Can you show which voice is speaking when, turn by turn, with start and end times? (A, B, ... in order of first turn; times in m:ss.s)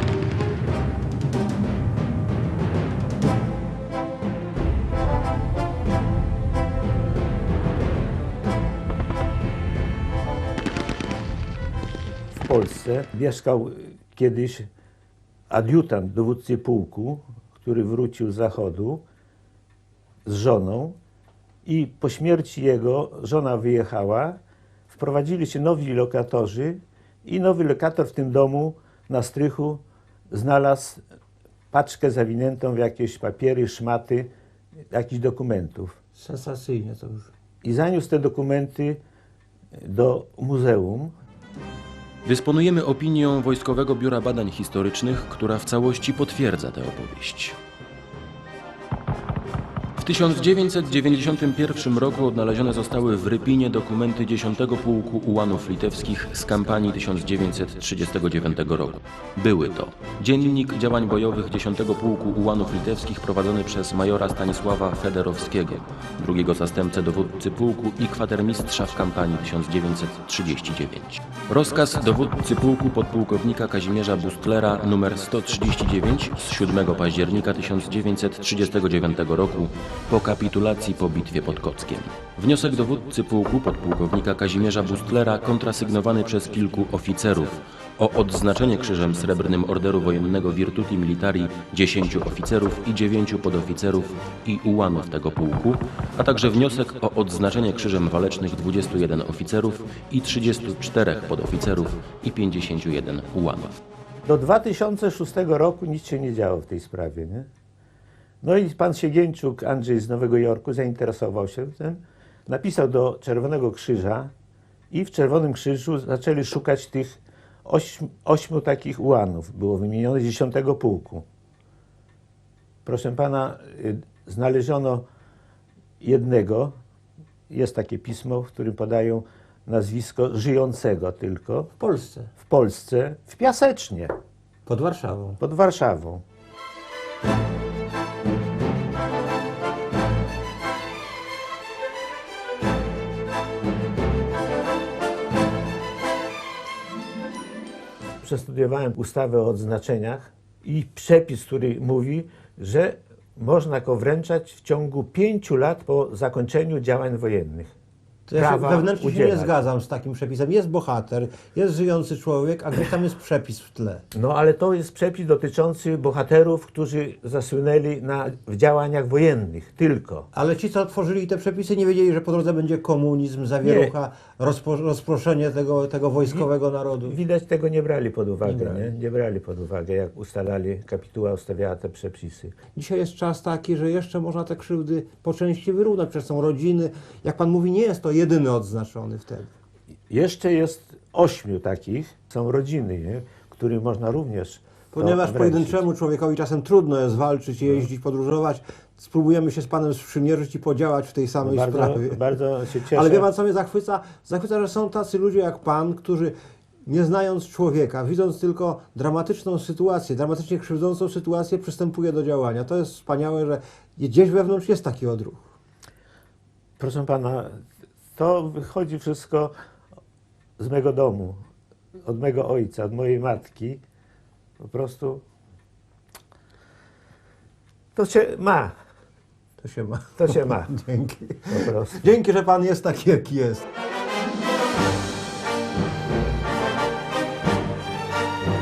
0:12.3-0:14.7 A
0:15.5-0:19.0 A
0:20.3-0:21.0 A
0:21.6-0:31.0 A
0:31.7-0:34.3 A
0:34.9-0:36.0 A
0:36.2-0:37.3 B
0:37.6-0:39.0 A
0:39.8-0:41.2 A
0:42.2-0:47.6 C
0:50.0-1:43.8 C
1:44.2-1:47.5 A
1:48.4-1:54.3 A
1:54.9-2:01.2 A
2:02.8-2:05.1 A
2:06.0-2:06.8 A
2:07.5-2:11.7 A
2:11.8-2:12.3 B
2:12.4-2:14.2 A
2:14.7-2:15.4 B
2:15.4-2:16.2 A
2:28.2-2:37.7 A
2:38.3-2:44.0 B
2:38.3-2:39.6 A
2:44.1-2:50.3 A
2:50.3-2:57.2 B
2:53.6-2:54.0 A
2:57.1-3:02.6 A
2:58.4-2:58.9 B
3:02.7-3:09.5 B
3:10.1-3:15.8 A
3:14.9-3:22.2 B
3:21.4-3:23.3 A
3:22.9-3:26.4 B
3:26.9-3:35.5 B
3:36.8-3:39.5 A
3:40.6-3:41.4 A
3:42.0-3:43.8 A
3:44.6-3:45.2 A
3:48.0-3:48.8 A
3:49.6-3:53.6 B
3:50.2-3:50.7 A
3:51.5-3:52.0 A